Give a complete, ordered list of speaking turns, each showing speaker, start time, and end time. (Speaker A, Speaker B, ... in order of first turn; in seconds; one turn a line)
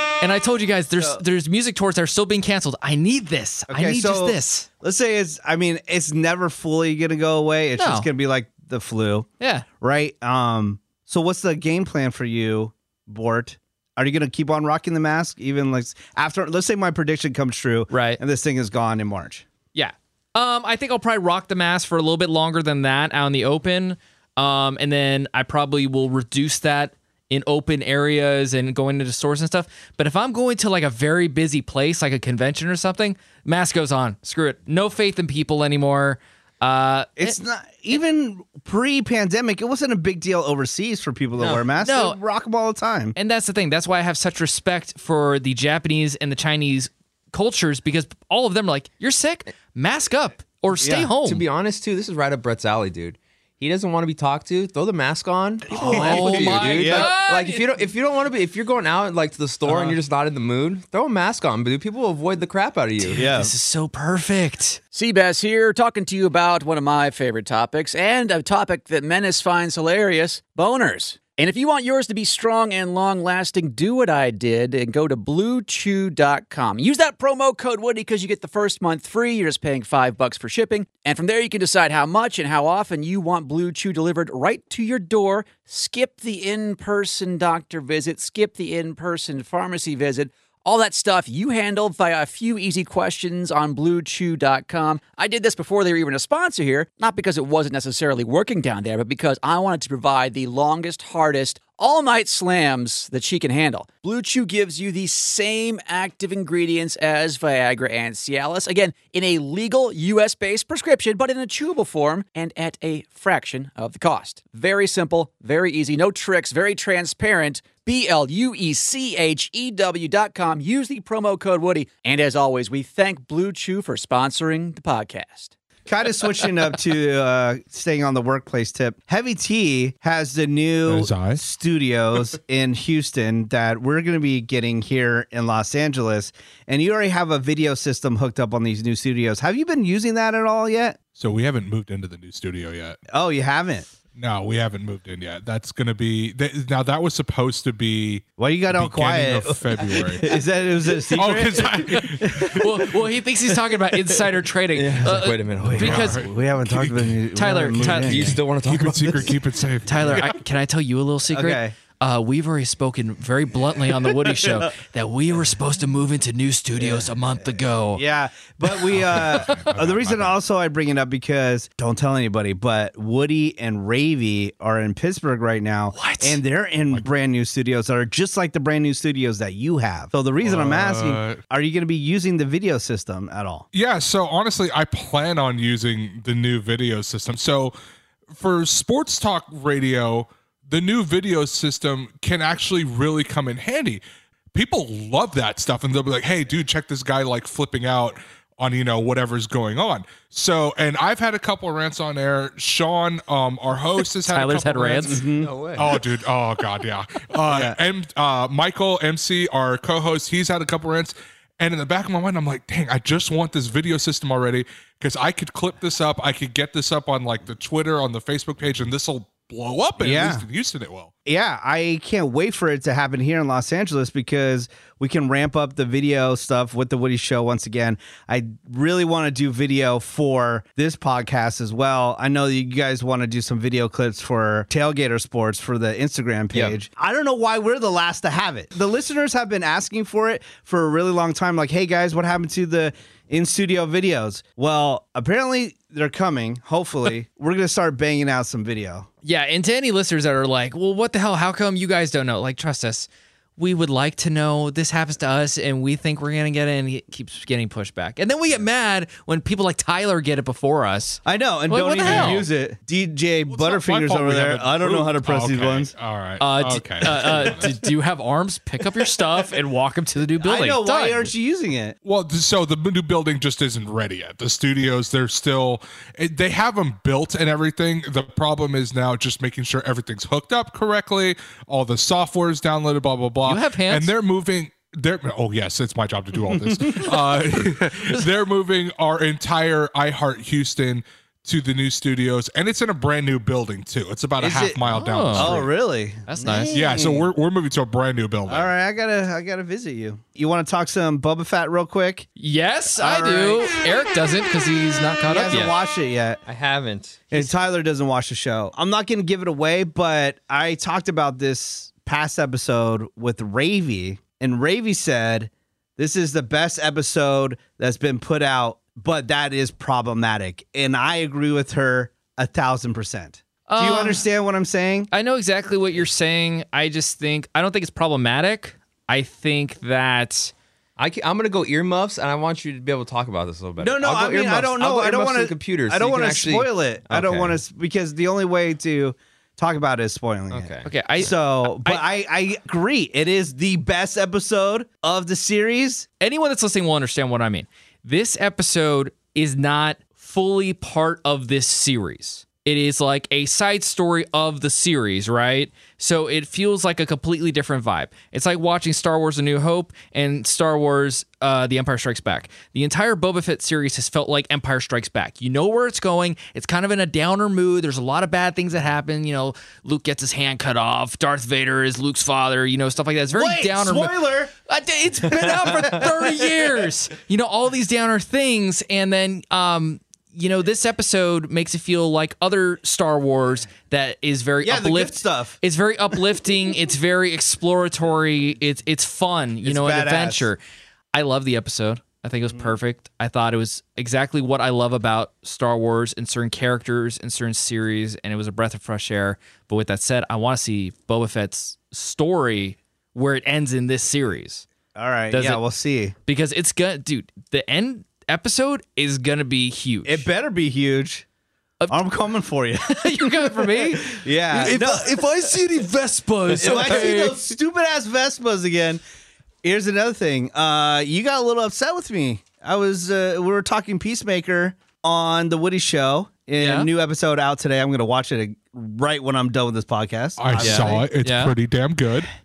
Speaker A: 0.2-4.7
Speaker B: 3.7-9.3
Speaker A: 7.8-8.1
Speaker A: 9.4-9.6
Speaker B: 9.8-19.4
Speaker A: 17.9-18.2
Speaker A: 19.7-37.4
Speaker B: 37.2-43.1
Speaker C: 41.4-41.6
Speaker A: 41.8-42.2
Speaker A: 43.1-51.4
Speaker B: 50.8-51.1
Speaker C: 51.2-63.2
Speaker A: 55.7-57.6
Speaker B: 55.7-57.1
Speaker B: 59.6-60.0
Speaker A: 63.0-64.8
Speaker B: 63.1-63.5
Speaker D: 64.9-125.5
Speaker B: 125.9-141.0
Speaker E: 130.8-131.4
Speaker E: 141.1-143.0
Speaker B: 143.1-143.9
Speaker E: 144.1-150.3
Speaker B: 148.4-152.6
Speaker E: 151.1-152.6
Speaker A: 152.3-156.2
Speaker C: 154.7-156.1
Speaker B: 155.6-158.4
Speaker E: 155.8-157.1
Speaker A: 157.3-158.3
Speaker C: 157.9-159.4
Speaker E: 158.6-160.4
Speaker A: 159.8-168.0
Speaker B: 161.3-161.7
Speaker B: 166.8-167.1
Speaker B: 167.9-183.7
Speaker E: 168.9-170.3
Speaker A: 169.1-169.6
Speaker A: 175.9-176.4
Speaker E: 180.4-181.4
Speaker E: 183.7-187.7
Speaker E: 188.3-194.0
Speaker E: 194.5-221.1
Speaker A: 204.2-205.2
Speaker B: 205.0-205.5
Speaker C: 205.3-206.0
Speaker B: 207.5-207.8
Speaker B: 220.0-220.4
Speaker B: 221.2-249.1
Speaker A: 249.2-262.4
Speaker B: 261.2-265.9
Speaker E: 262.0-262.4
Speaker E: 263.5-267.8
Speaker A: 266.4-271.3
Speaker B: 270.4-271.9
Speaker E: 272.0-295.6
Speaker A: 283.4-284.1
Speaker B: 286.5-287.1
Speaker B: 294.4-294.8
Speaker A: 294.9-295.6
Speaker B: 295.3-297.2
Speaker A: 296.3-296.7
Speaker E: 296.7-298.7
Speaker B: 298.5-302.3
Speaker A: 302.4-305.7
Speaker B: 302.9-303.7
Speaker B: 305.3-306.4
Speaker C: 306.4-307.2
Speaker B: 307.3-325.1
Speaker A: 323.7-324.2
Speaker A: 325.1-330.5
Speaker C: 331.0-337.6
Speaker B: 333.8-346.1
Speaker C: 340.5-340.9
Speaker A: 340.8-342.0
Speaker A: 346.2-390.6
Speaker B: 373.3-374.5
Speaker B: 384.6-385.6
Speaker B: 389.6-390.5
Speaker A: 391.1-404.6
Speaker B: 404.9-406.1
Speaker A: 405.3-405.6
Speaker A: 406.2-410.3
Speaker B: 410.0-411.2
Speaker B: 411.9-415.2
Speaker A: 412.9-417.5
Speaker B: 416.6-419.0
Speaker B: 419.6-431.1
Speaker A: 426.6-426.9
Speaker E: 430.4-432.3
Speaker A: 430.6-431.5